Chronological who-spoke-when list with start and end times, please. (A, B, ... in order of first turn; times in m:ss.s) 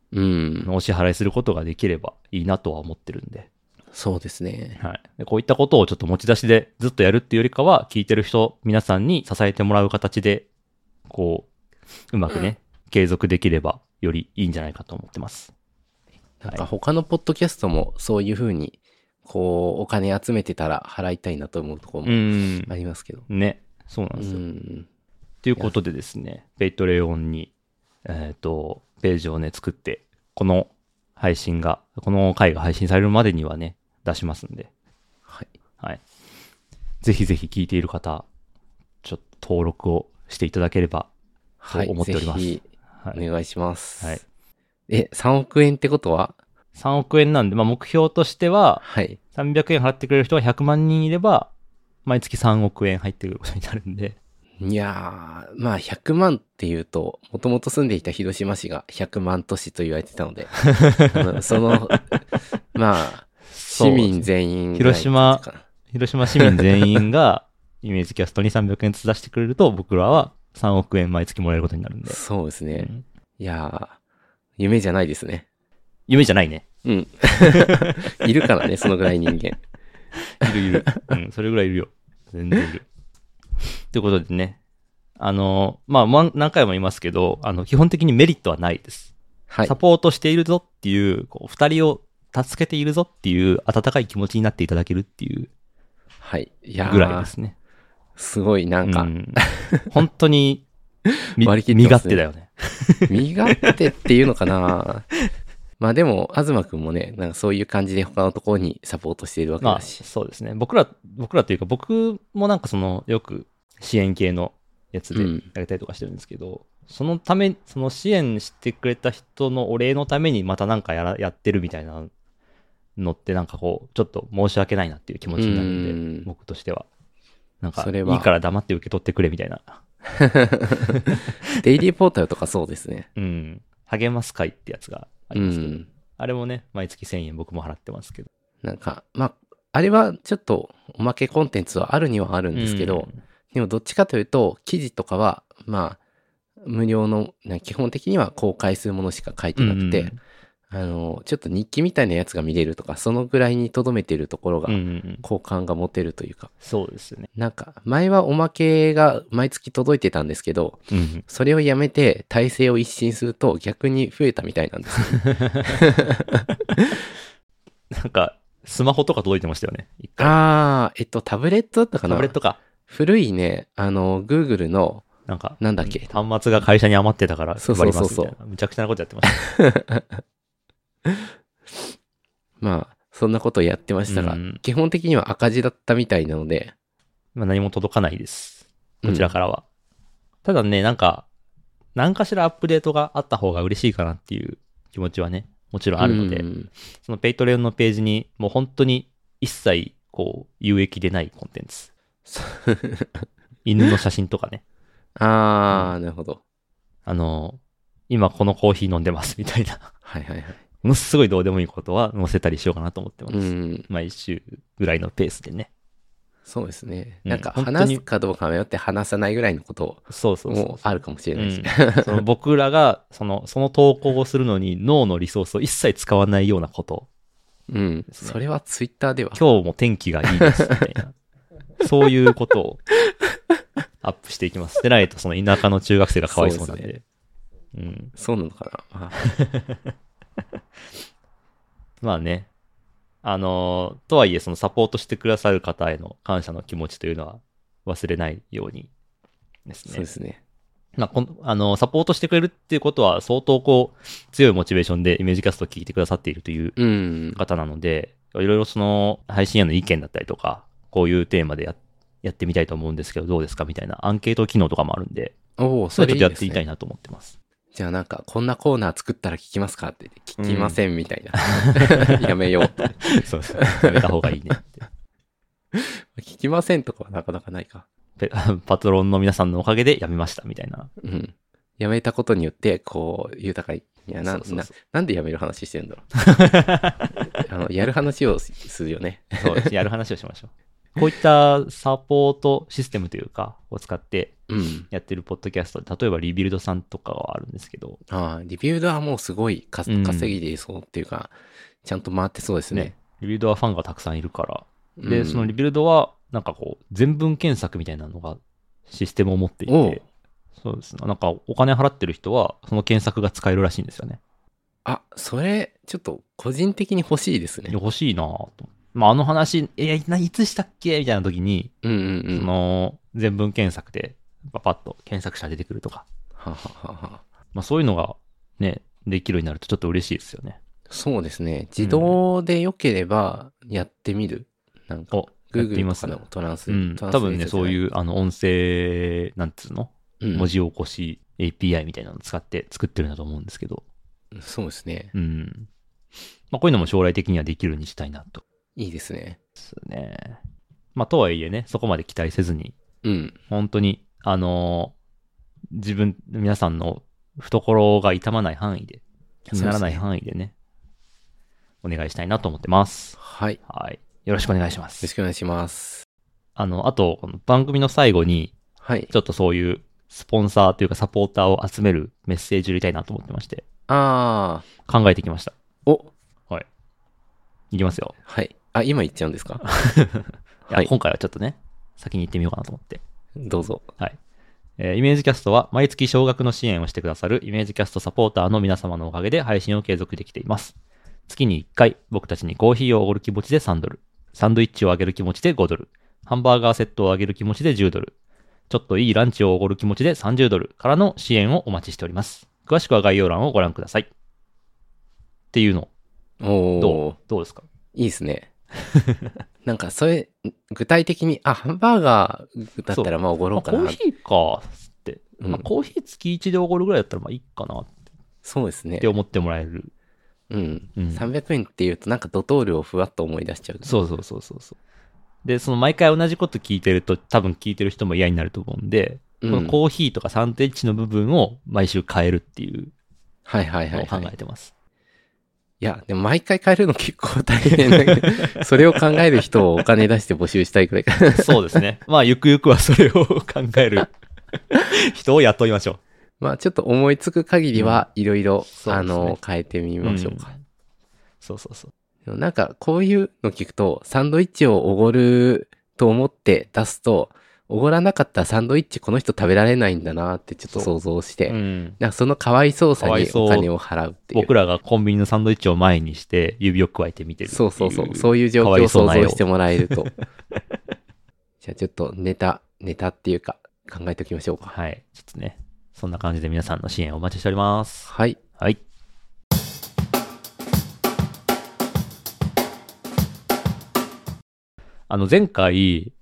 0:00.1-0:00.7 A
0:00.6-0:03.5 B
0:03.9-0:04.8 A
0:04.8-0:10.5 B
0:11.1-0:11.5 B
0:12.1-0:15.5 B
0:16.4-0:23.2 A
0:22.0-0:22.7 B
0:23.3-0:24.4 B
0:24.2-0:24.9 A
0:25.4-0:27.5 B
0:28.0-0:34.7 B
0:37.0-0:38.2 B
0:39.0-0:41.1 B
0:41.6-0:44.2 A
0:41.7-0:43.2 B
0:44.9-0:46.4 A
0:46.8-0:48.8 B
0:48.8-0:49.2 A
0:49.3-0:51.5 B
0:52.0-0:54.2 B
0:54.6-1:02.1 A
1:00.6-1:02.0 B
1:02.7-1:05.6 A
1:03.5-1:12.2 B
1:06.4-1:07.0 A
1:12.1-1:14.0 A
1:12.8-1:13.0 B
1:14.6-1:15.4 A
1:16.1-1:16.7 B
1:16.8-1:19.6 A
1:17.4-1:18.1 B
1:20.3-1:22.8 B
1:23.9-1:24.6 B
1:25.2-1:29.1 B
1:29.5-1:29.7 A
1:29.6-1:35.5 B
1:36.2-1:37.3 A
1:36.8-1:37.6 B
1:38.2-1:39.9 A
1:38.8-1:40.6 B
1:41.3-1:43.8 B
1:41.4-1:42.2 A
1:43.1-1:45.0 A
1:45.8-1:50.0 A
1:49.6-2:02.1 B
1:55.1-1:55.4 A
2:03.0-2:06.9 B
2:05.4-2:06.3 A
2:07.6-2:09.8 B
2:07.8-2:08.3 A
2:10.0-2:13.1 A
2:10.9-2:11.2 B
2:13.2-2:18.3 B
2:15.3-2:15.9 A
2:18.6-2:26.0 A
2:22.5-2:23.2 B
2:26.6-2:30.1 A
2:29.6-2:30.2 B
2:30.7-2:36.5 A
2:34.7-2:35.2 B
2:36.6-2:37.3 B
2:37.3-2:46.9 A
2:40.9-2:41.2 B
2:45.2-2:45.8 B
2:47.9-2:50.4 B
2:50.2-2:52.3 A
2:52.0-2:52.6 B
2:52.9-2:55.1 A
2:55.3-2:59.4 B
2:55.6-2:56.1 A
2:57.6-2:58.3 A
2:59.3-3:00.2 A
3:02.6-3:06.7 A
3:04.1-3:04.6 B
3:07.3-3:09.6 B
3:09.0-3:09.3 A
3:10.4-3:11.2 B
3:12.0-3:16.4 B
3:16.0-3:16.7 A
3:17.0-3:21.9 B
3:22.2-3:23.2 A
3:23.6-3:24.6 B
3:25.2-3:26.4 A
3:27.0-3:29.9 B
3:30.0-3:30.6 A
3:30.8-3:35.7 B
3:33.3-3:33.9 A
3:36.4-3:42.2 A
3:37.2-3:38.0 B
3:40.1-3:47.1 B
3:47.7-3:49.4 A
3:48.1-3:48.4 B
3:49.3-3:51.1 B
3:50.4-3:50.7 A
3:51.8-3:52.8 B
3:54.0-3:57.0 B
3:56.3-3:56.9 A
3:57.7-3:58.1 B
3:58.1-3:59.2 A
3:59.2-3:59.8 B
4:02.0-4:02.5 B
4:03.2-4:08.9 B
4:09.7-4:10.0 B
4:09.9-4:10.4 A
4:11.0-4:16.8 B
4:16.8-4:17.4 A
4:17.3-4:25.4 B
4:25.6-4:26.6 A
4:25.9-4:27.3 B
4:27.7-4:32.9 A
4:30.4-4:30.8 B
4:31.4-4:34.8 B
4:33.6-4:34.0 A
4:35.7-4:37.8 A
4:38.2-4:40.9 B
4:41.0-4:46.0 A
4:44.2-4:44.7 B
4:46.2-4:47.4 B
4:47.4-4:49.7 A
4:49.4-4:54.4 B
4:54.5-4:54.9 A
4:54.9-4:58.0 B
4:58.1-5:02.9 A
4:59.9-5:00.4 B
5:02.7-5:10.0 B
5:05.0-5:05.5 A
5:09.7-5:10.0 A
5:10.6-5:14.2 B
5:14.8-5:17.8 A
5:17.7-5:21.7 B
5:21.8-5:22.5 A
5:22.3-5:26.0 B
5:26.4-5:27.2 A
5:27.5-5:30.6 B
5:30.9-5:37.8 A
5:31.8-5:32.2 B
5:35.1-5:43.8 B
5:40.2-5:40.5 A
5:44.3-5:45.1 A
5:45.1-5:45.7 B
5:46.5-5:48.4 B
5:48.8-5:49.4 A
5:49.6-5:50.4 B
5:50.9-5:52.7 B
5:53.0-5:53.3 A
5:53.5-5:54.9 B
5:55.7-6:00.5 B
5:59.5-6:00.0 A
6:01.8-6:05.1 B
6:03.2-6:03.6 A
6:05.0-6:06.0 A
6:06.6-6:08.5 B
6:08.8-6:09.1 A
6:09.1-6:13.6 B
6:13.9-6:14.7 A
6:14.8-6:15.5 B
6:15.8-6:16.1 A
6:17.7-6:18.1 B
6:18.2-6:19.6 A
6:19.6-6:23.0 B
6:23.4-6:23.9 A
6:24.8-6:30.7 B
6:31.3-6:38.1 B
6:38.7-6:44.1 B
6:45.5-6:45.9 B
6:46.4-6:47.2 A
6:46.8-6:47.6 B
6:47.9-6:48.5 A
6:48.9-6:49.3 B
6:49.6-6:54.0 A
6:52.9-6:57.9 B
6:58.4-6:59.1 A
6:59.0-6:59.9 B
7:00.5-7:03.9 A
7:01.0-7:01.3 B
7:03.8-7:04.8 B
7:05.4-7:12.9 B
7:09.4-7:09.8 A
7:13.4-7:14.3 A
7:13.9-7:14.7 B
7:15.8-7:21.6 A
7:17.9-7:18.6 B
7:21.3-7:24.1 B
7:24.7-7:26.0 B
7:26.4-7:30.5 A
7:27.7-7:28.0 B
7:28.7-7:29.4 B
7:30.0-7:30.6 B
7:31.4-7:31.9 B
7:32.2-7:44.5 A
7:41.5-7:42.0 B
7:43.0-7:43.7 B
7:44.3-7:50.2 B
7:47.5-7:50.1 A
7:51.6-7:54.7 A
7:54.7-7:58.8 B
7:58.1-7:58.4 A
8:05.1-8:06.1 B